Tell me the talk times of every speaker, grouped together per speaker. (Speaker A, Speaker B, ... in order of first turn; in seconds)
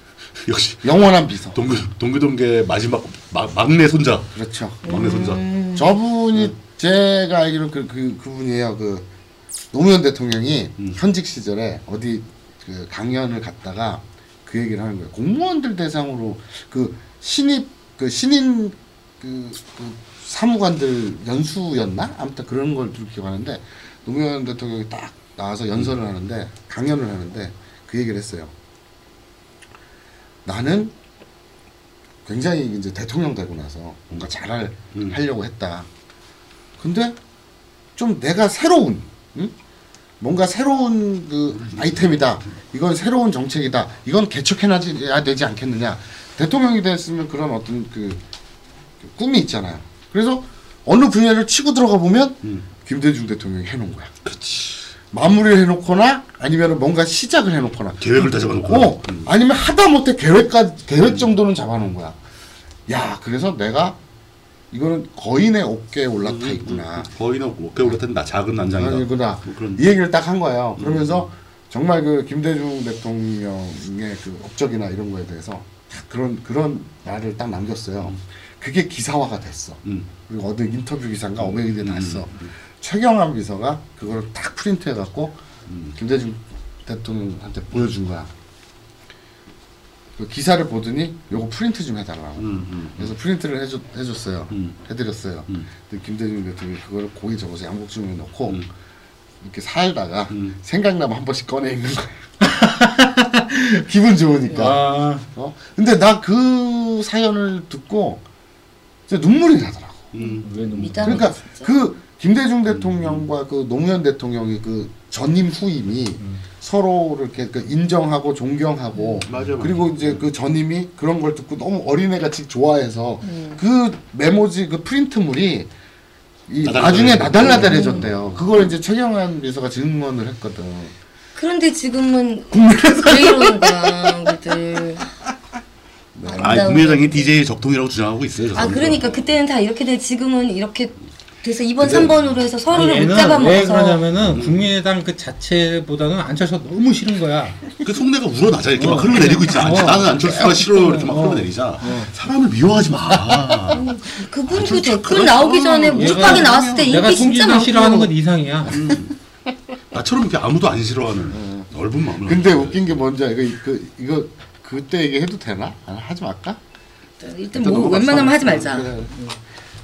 Speaker A: 0.4-0.9, 1.5-4.3, 4.8-5.4, 41.6-42.3, 54.2-54.8, 58.0-59.3, 66.2-69.8, 70.8-71.2, 79.8-80.1, 81.4-82.5, 85.7-85.9, 92.4-93.1, 100.3-100.5, 110.1-110.5, 112.7-113.2, 119.2-120.2, 126.6-128.7, 136.4-139.2, 144.2-144.7, 147.8-153.8, 154.5-157.0, 158.7-159.1, 159.9-162.9
Speaker B: 0.8-1.6, 4.3-4.9, 5.7-9.1, 9.7-28.5, 30.4-30.9, 32.2-35.9, 36.8-37.2, 38.0-39.5, 40.2-48.2, 49.0-54.1, 55.1-62.2, 62.9-64.0, 64.7-67.1, 68.7-85.4, 85.9-88.3, 90.2-98.6, 99.4-102.2, 103.5-108.2, 109.1-110.1, 111.0-125.7, 126.5-130.9, 132.5-134.3, 136.1-136.7, 141.8-142.1, 153.2-153.5, 161.3-161.7, 162.2-166.6, 167.5-169.1
Speaker C: 4.8-5.9, 104.5-104.7, 110.2-111.7, 123.2-123.6, 127.5-128.1, 131.3-135.1, 136.2-137.2, 138.5-144.0, 153.7-158.1, 167.2-169.3
Speaker D: 102.4-103.5, 104.5-105.2, 110.4-111.3, 142.7-147.6, 148.8-152.1, 155.9-158.8